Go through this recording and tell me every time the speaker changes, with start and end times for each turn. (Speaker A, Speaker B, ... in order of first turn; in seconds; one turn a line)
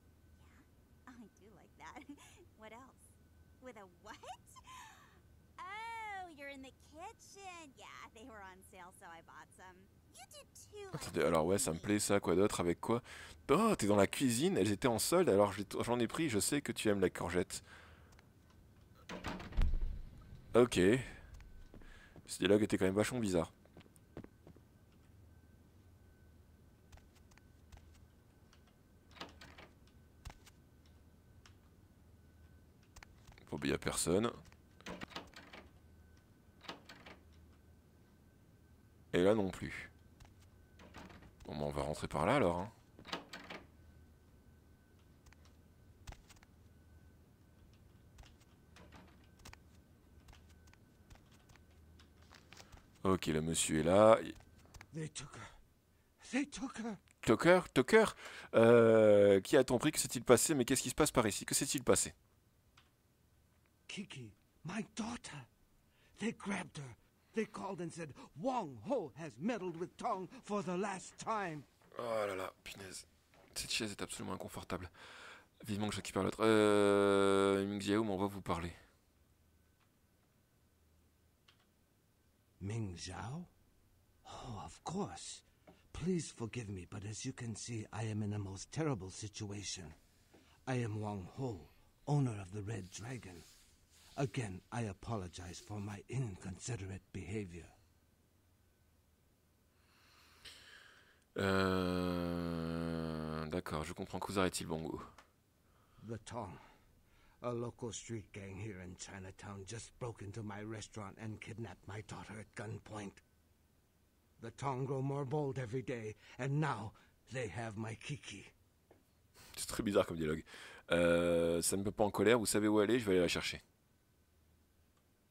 Speaker A: 0.3-11.9
Speaker B: 10.9-17.6
Speaker B: 20.5-21.2
Speaker B: 22.3-23.5
Speaker B: 33.5-34.4
Speaker B: 39.1-39.9
Speaker B: 41.4-42.7
Speaker B: 53.0-54.3
Speaker C: 54.9-55.5
Speaker C: 56.2-57.0
Speaker B: 57.2-62.1
Speaker C: 63.9-65.5
Speaker C: 66.2-71.7
Speaker B: 71.9-74.9
Speaker B: 75.6-78.8
Speaker C: 82.6-83.5
Speaker C: 84.2-90.0
Speaker C: 90.7-93.5
Speaker C: 94.2-97.7
Speaker B: 101.3-105.1
Speaker C: 106.0-106.6
Speaker C: 107.4-113.2
Speaker C: 114.4-118.5
Speaker B: 119.5-123.6